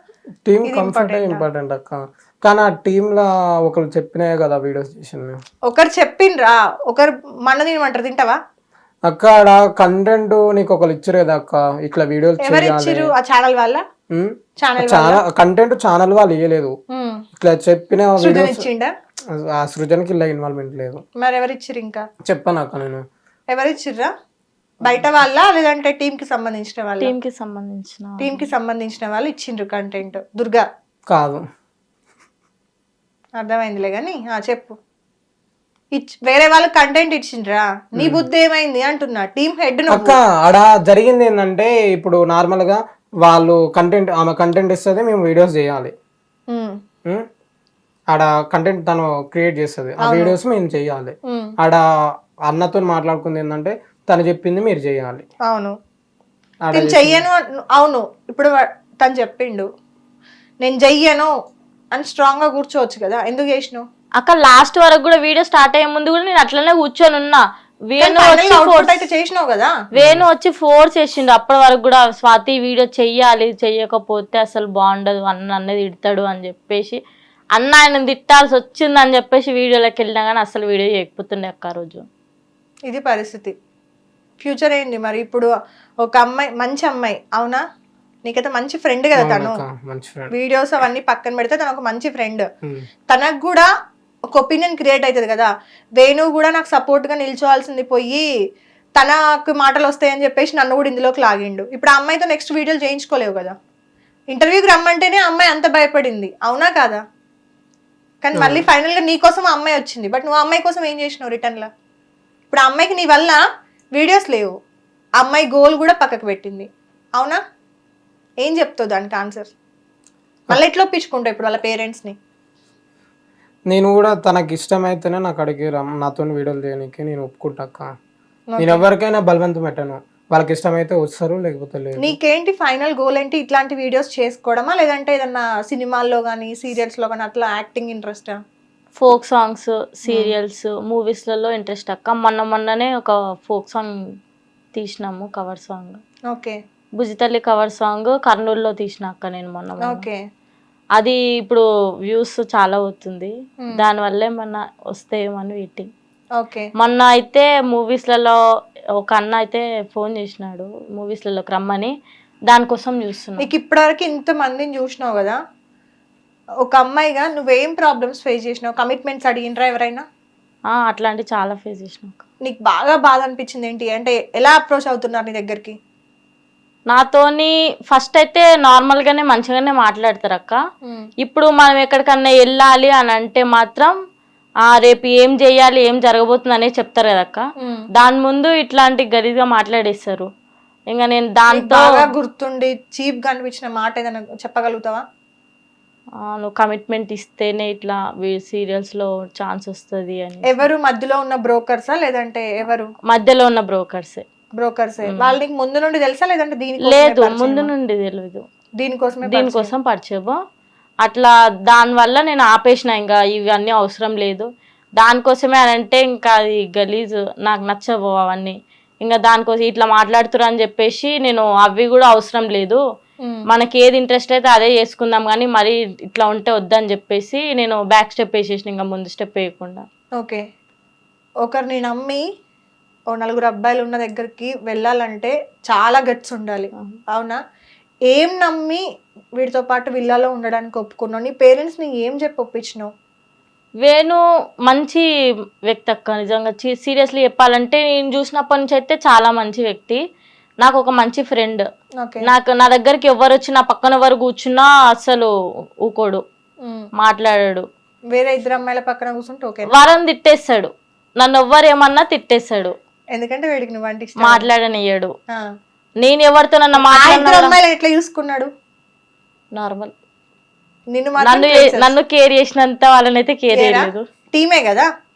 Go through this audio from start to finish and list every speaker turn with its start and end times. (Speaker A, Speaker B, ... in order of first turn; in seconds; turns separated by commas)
Speaker A: 0.5-5.4, Speaker B: 0.6-1.4, Speaker B: 5.7-8.4, Speaker A: 9.1-13.1, Speaker B: 12.4-13.8, Speaker A: 14.1-16.8, Speaker B: 14.6-15.2, Speaker B: 16.9-17.2, Speaker A: 17.4-18.6, Speaker B: 18.2-18.9, Speaker A: 19.3-21.0, Speaker B: 21.2-22.1, Speaker A: 22.2-23.1, Speaker B: 23.5-24.1, Speaker B: 24.8-27.1, Speaker C: 27.0-28.5, Speaker B: 28.2-30.7, Speaker A: 31.1-31.4, Speaker B: 33.4-34.8, Speaker B: 35.9-40.2, Speaker A: 38.0-38.3, Speaker A: 39.9-45.9, Speaker B: 46.5-46.8, Speaker A: 48.1-51.8, Speaker B: 50.0-50.4, Speaker A: 52.5-55.2, Speaker B: 55.5-55.7, Speaker A: 56.6-57.3, Speaker B: 56.7-59.7, Speaker B: 60.6-61.3, Speaker B: 61.9-63.9, Speaker C: 64.2-69.0, Speaker B: 68.0-69.7, Speaker C: 70.0-77.0, Speaker A: 70.0-70.3, Speaker C: 77.5-82.0, Speaker B: 82.9-83.5, Speaker B: 84.4-85.5, Speaker B: 86.0-87.6, Speaker B: 88.2-89.6, Speaker A: 89.2-90.3, Speaker B: 90.3-92.5, Speaker B: 93.1-93.7, Speaker B: 94.3-98.2, Speaker B: 99.0-103.5, Speaker B: 104.3-107.0, Speaker B: 108.2-111.7, Speaker A: 108.3-108.7, Speaker B: 112.5-113.4, Speaker B: 114.0-114.5, Speaker B: 115.2-117.4, Speaker B: 118.4-119.5, Speaker B: 120.5-122.2, Speaker A: 123.7-127.9, Speaker B: 128.5-128.8, Speaker A: 128.6-132.2, Speaker B: 132.0-138.4, Speaker C: 139.0-144.0, Speaker B: 140.1-140.3, Speaker C: 144.8-146.0, Speaker B: 146.3-146.6, Speaker C: 147.0-150.1, Speaker B: 149.8-150.2, Speaker C: 151.0-155.9, Speaker B: 156.4-156.7, Speaker C: 156.8-158.4, Speaker C: 159.0-161.9, Speaker C: 162.5-163.5, Speaker B: 163.4-165.4, Speaker B: 166.7-170.0, Speaker C: 170.7-172.2, Speaker B: 172.4-175.8, Speaker C: 176.9-180.6, Speaker C: 181.2-183.9, Speaker C: 184.7-187.4, Speaker C: 187.9-190.3, Speaker C: 190.9-192.0, Speaker B: 191.5-195.0, Speaker C: 196.3-200.7, Speaker B: 200.5-202.9, Speaker C: 203.1-204.2, Speaker B: 204.6-207.7, Speaker C: 205.1-205.4, Speaker C: 206.8-208.4, Speaker B: 208.8-209.7, Speaker C: 209.2-210.4, Speaker C: 211.0-214.5, Speaker C: 215.0-222.8, Speaker C: 223.5-229.8, Speaker B: 230.1-230.4, Speaker B: 231.4-232.2, Speaker B: 233.1-237.4, Speaker B: 238.1-238.8, Speaker B: 239.4-242.9, Speaker C: 243.8-245.1, Speaker C: 245.7-250.0, Speaker C: 250.6-251.6, Speaker B: 252.0-252.2, Speaker C: 252.2-255.3, Speaker C: 255.8-256.2, Speaker C: 257.0-257.6, Speaker B: 258.1-259.7, Speaker C: 259.7-262.7, Speaker B: 263.1-264.5, Speaker C: 264.2-265.1, Speaker C: 266.0-267.6, Speaker B: 266.8-268.5, Speaker C: 269.6-269.9, Speaker B: 270.9-271.9, Speaker C: 271.2-274.0, Speaker B: 273.5-274.9